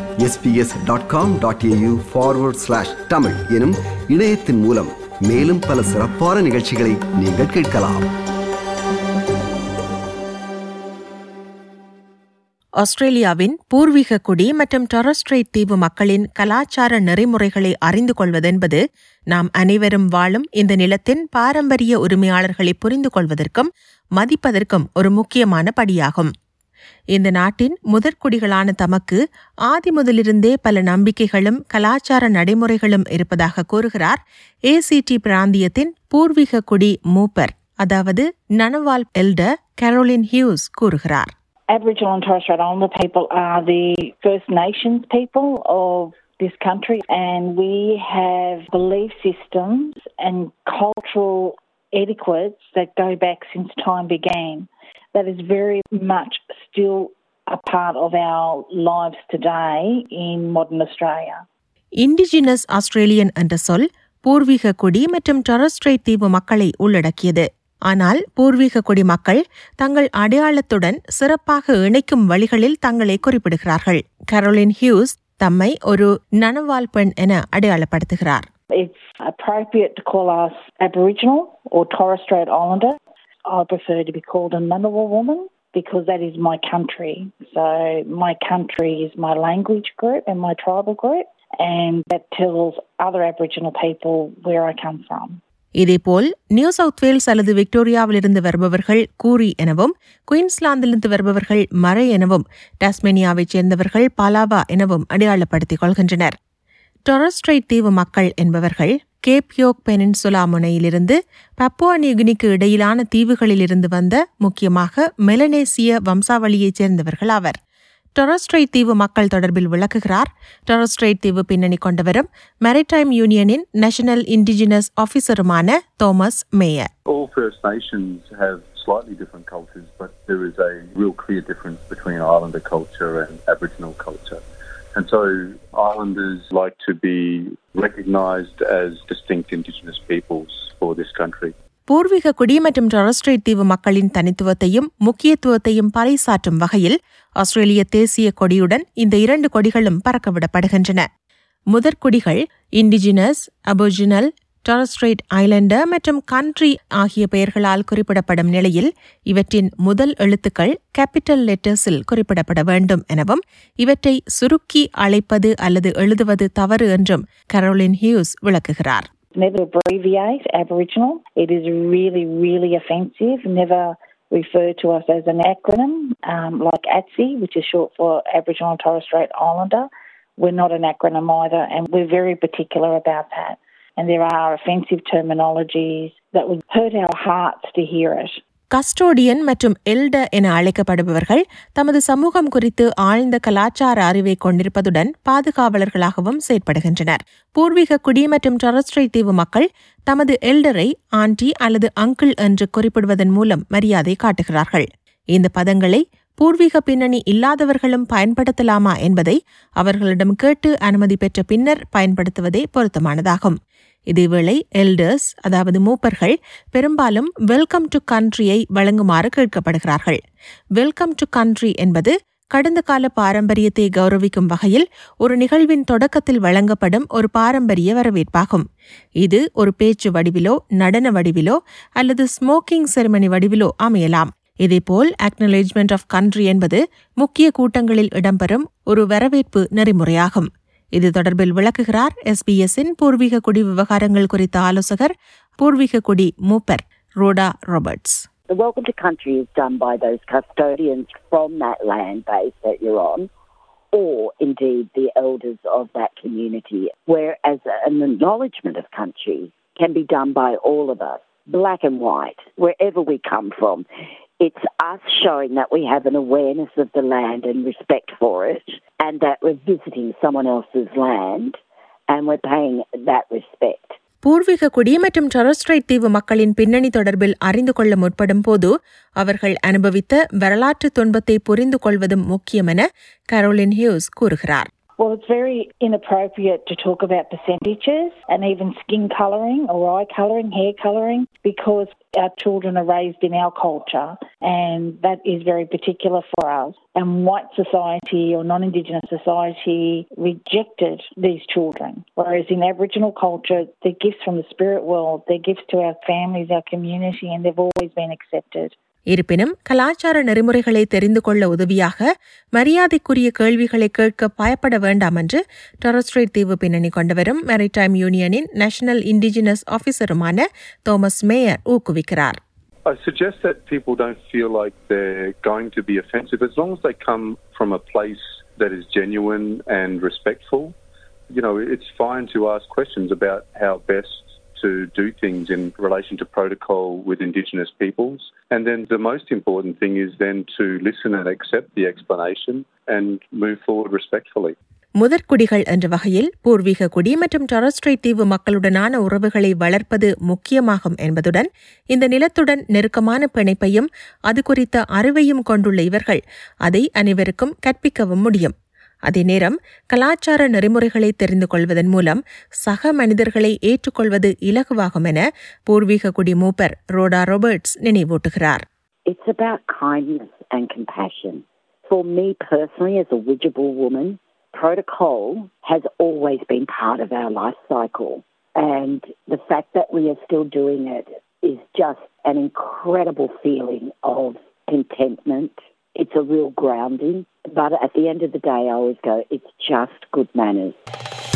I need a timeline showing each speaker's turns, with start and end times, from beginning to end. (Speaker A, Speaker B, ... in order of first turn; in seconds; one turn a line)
Speaker A: 0.3-8.1
Speaker B: 12.8-18.8
Speaker B: 19.3-26.3
Speaker B: 27.1-41.3
Speaker C: 41.7-61.4
Speaker B: 62.0-78.4
Speaker C: 78.7-95.4
Speaker B: 95.8-106.3
Speaker B: 107.1-117.6
Speaker B: 118.2-126.9
Speaker D: 127.1-134.4
Speaker D: 134.9-141.5
Speaker B: 141.9-151.1
Speaker B: 151.7-169.0
Speaker C: 169.3-188.4
Speaker B: 188.7-213.6
Speaker B: 214.1-220.2
Speaker B: 220.8-228.6
Speaker B: 229.2-248.2
Speaker E: 248.5-253.3
Speaker E: 253.9-263.9
Speaker E: 264.4-271.6
Speaker E: 272.1-274.0
Speaker B: 274.2-284.7
Speaker C: 285.0-308.7
Speaker B: 309.1-322.4
Speaker D: 322.9-330.8
Speaker D: 331.3-344.6
Speaker B: 345.0-358.5
Speaker B: 359.1-368.6
Speaker E: 369.1-390.8